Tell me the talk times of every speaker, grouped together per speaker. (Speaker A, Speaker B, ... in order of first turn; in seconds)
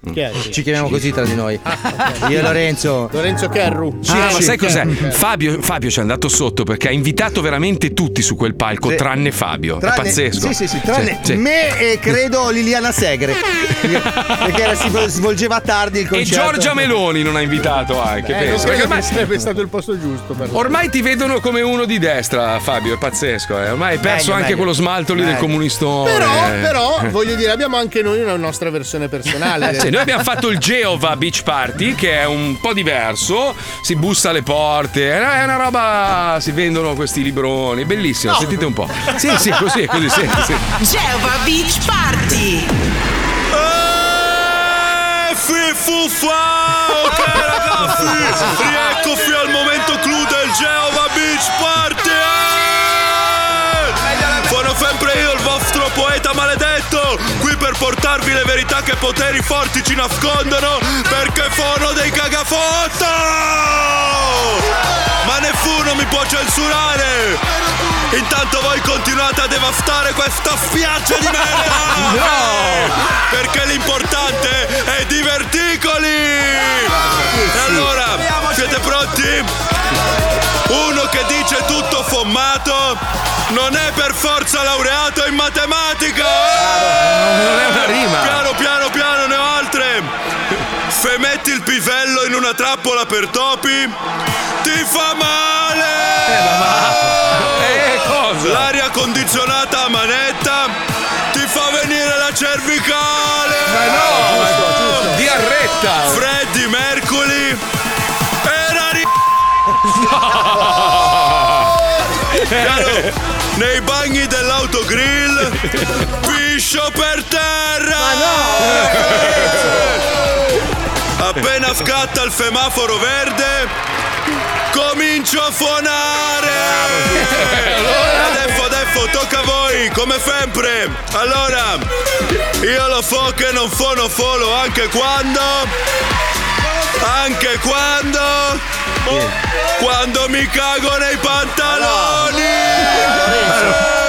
Speaker A: 0.1-0.6, 2.0-2.5, 3.1-5.2, 18.3-20.8, 26.0-30.0, 104.2-104.6
Speaker B: 0.5-3.1, 4.1-4.7, 9.8-16.8, 24.0-25.5, 77.1-78.8, 86.7-87.2, 141.7-142.2, 142.7-143.8
Speaker C: 4.0-11.4, 16.1-19.1, 20.5-27.1, 29.7-40.6, 71.9-72.9, 86.9-88.5, 96.3-98.7, 103.7-106.2, 109.9-111.7, 112.3-113.1, 118.6-119.8, 127.2-128.3, 143.5-143.8
Speaker D: 40.8-42.7
Speaker E: 43.5-64.7, 65.2-67.4, 68.1-79.5, 80.7-86.7, 87.6-90.1, 90.9-94.0, 94.6-96.4, 98.4-100.8, 101.3-103.8, 106.0-107.6, 108.4-109.1, 112.5-120.0, 121.2-123.7, 124.7-131.9, 132.6-135.7, 137.0-142.8